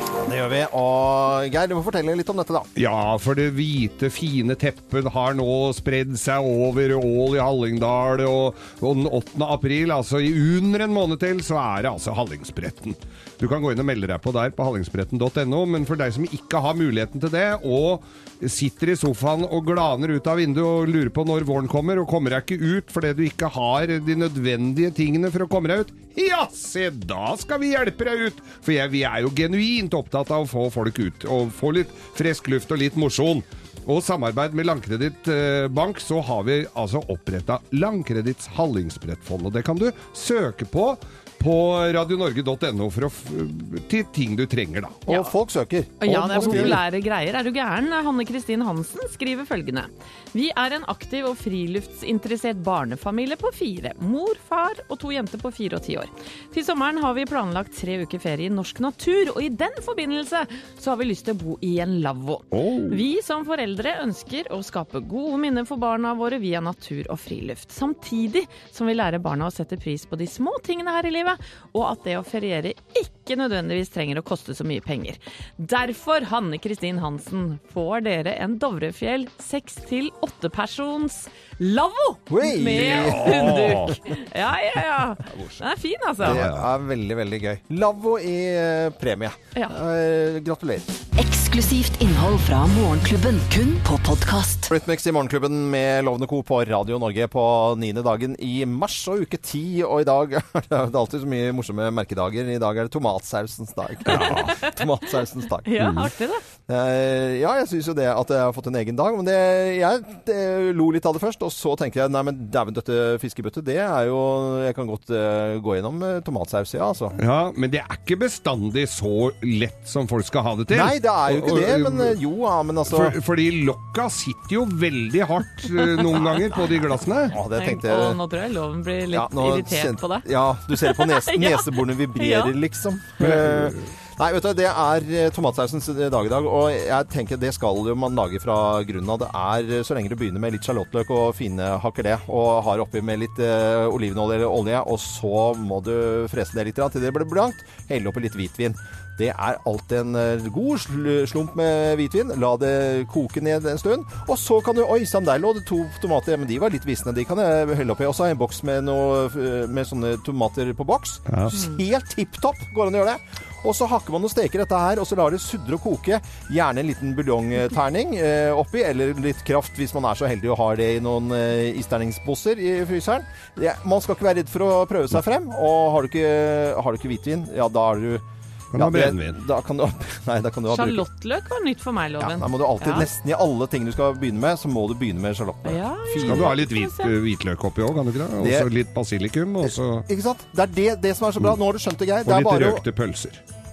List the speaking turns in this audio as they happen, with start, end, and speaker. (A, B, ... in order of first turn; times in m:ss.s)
0:00.2-0:02.7 A
0:02.8-0:45.0 B
0:45.0-0:46.8 A
0:46.0-1:26.4 C
0:46.1-0:46.8 B
1:02.5-1:03.0 B
1:22.3-1:23.7 A
1:22.6-1:24.0 B
1:25.3-1:25.6 B
1:26.2-1:26.7 B
1:26.2-1:30.9 A
1:31.2-1:34.7 D
1:34.7-1:46.0 A
1:44.1-1:44.5 B
1:44.1-1:44.8 C
1:45.6-1:46.4 C
1:45.8-1:46.1 B
1:46.7-1:57.2 A
1:57.2-2:02.2 B
2:00.7-2:03.2 A
2:02.9-2:07.4 B
2:05.8-2:06.7 C
2:07.3-2:08.2 A
2:07.5-2:12.5 C
2:09.1-3:01.0 A
2:13.2-2:13.9 B
2:41.3-2:41.6 B
2:58.7-2:59.4 B
3:00.7-3:03.1 C
3:02.2-3:06.6 A
3:05.6-3:07.1 C
3:06.2-3:10.0 B
3:08.4-3:08.7 A
3:09.6-3:12.8 A
3:12.2-3:13.4 B